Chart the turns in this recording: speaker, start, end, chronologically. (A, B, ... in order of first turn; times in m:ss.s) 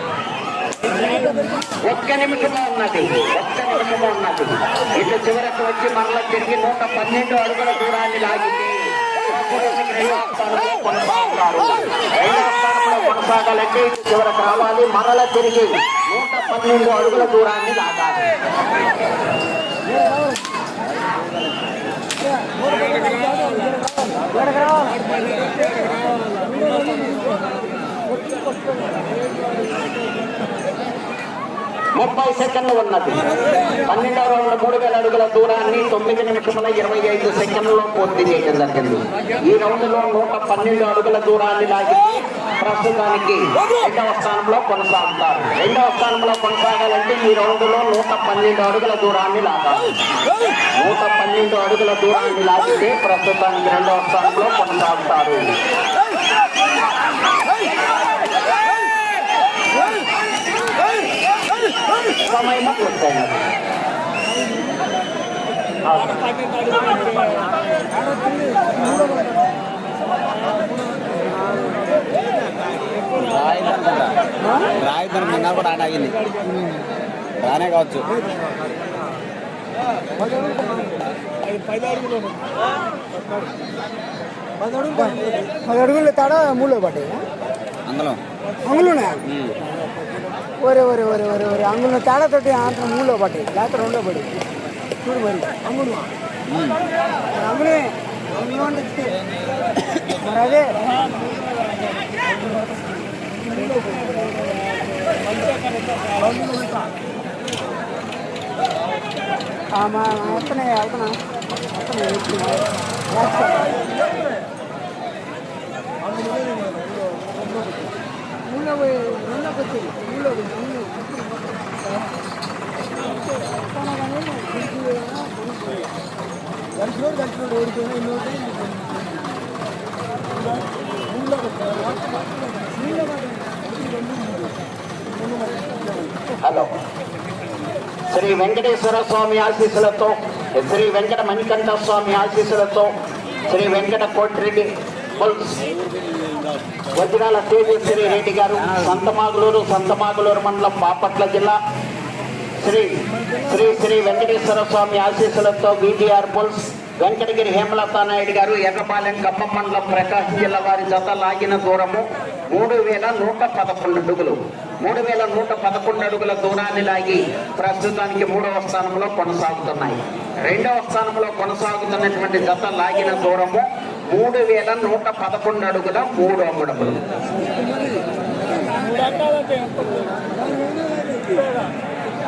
0:01.0-0:01.6 A
0:01.8-0:18.3 B
0:23.2-0:23.6 A
0:24.4-0:24.7 A
0:31.9-0:50.0 B
0:50.8-0:55.4 B
1:02.2-1:03.4 B
1:05.8-1:06.2 B
1:13.1-1:14.2 C
1:14.8-1:16.2 C
1:17.4-1:18.1 C
1:24.8-1:27.2 A
1:27.8-1:28.2 C
1:28.6-1:29.2 A
1:29.2-1:29.6 C
1:30.6-1:34.3 A
1:35.0-1:35.8 A
1:36.5-1:36.8 C
1:37.3-1:39.1 A
1:40.2-1:40.7 A
1:43.6-1:44.2 A
1:49.8-1:51.2 A
1:51.8-1:52.7 A
1:53.2-1:53.7 A
1:58.5-2:01.1 A
2:04.0-2:05.3 A
2:07.6-2:08.3 A
2:16.4-2:16.7 B
2:18.1-2:22.9 B
2:23.5-2:25.6 B
2:26.9-2:31.6 B
2:28.6-2:29.0 C
2:32.6-2:57.0 B